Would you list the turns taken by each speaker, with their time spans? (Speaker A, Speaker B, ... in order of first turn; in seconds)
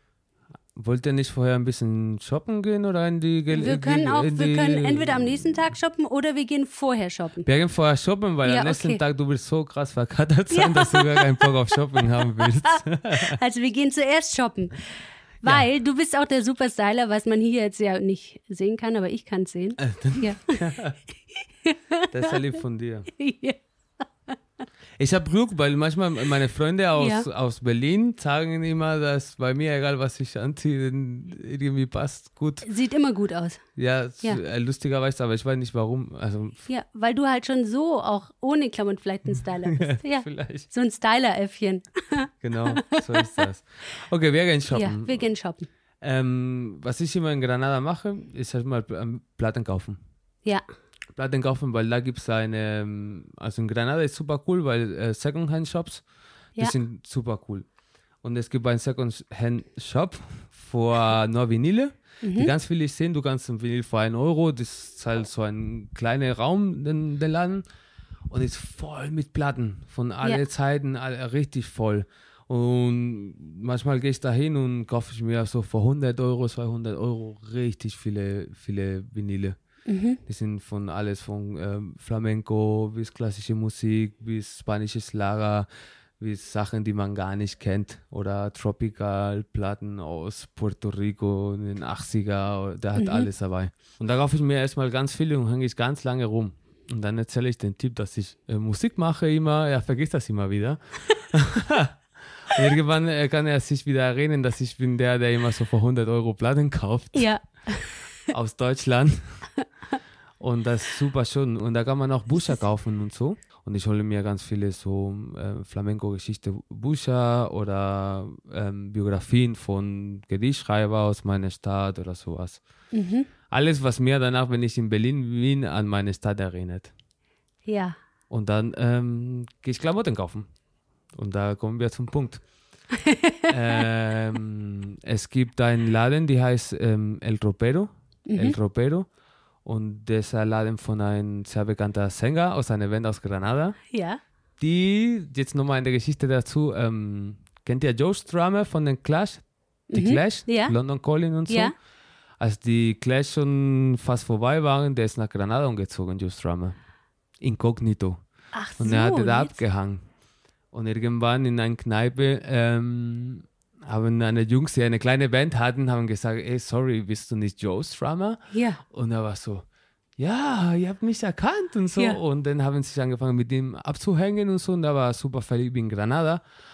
Speaker A: 0.7-5.5, 7.4-13.4, 19.8-21.0, 22.1-23.1, 25.0-32.7, 33.8-36.6, 39.7-40.7, 42.4-45.2, 46.0-50.0, 51.2-56.0, 56.6-57.7, 58.2-67.6, 68.3-79.6, 80.2-85.7, 86.2-107.3, 108.3-109.4, 110.4-122.6, 123.5-126.9, 128.3-130.5, 131.2-132.4, 133.5-139.1, 139.7-143.8, 144.6-149.4, 149.9-151.7, 152.4-156.8, 157.4-158.2, 158.8-160.0, 160.7-169.7, 170.2-176.4
Speaker B: 3.5-7.5, 8.4-9.0, 10.5-11.5, 12.2-14.8, 15.4-20.7, 21.6-22.4, 23.2-24.4, 27.0-27.2, 32.6-33.6, 36.7-43.3, 44.7-45.7, 62.2-62.5, 79.8-80.2, 93.0-93.3, 107.1-108.3, 122.9-123.3, 127.7-128.0, 132.9-133.5, 138.3-138.6, 143.9-144.2, 149.9-150.7, 151.5-151.7, 158.5-159.6, 168.5-168.8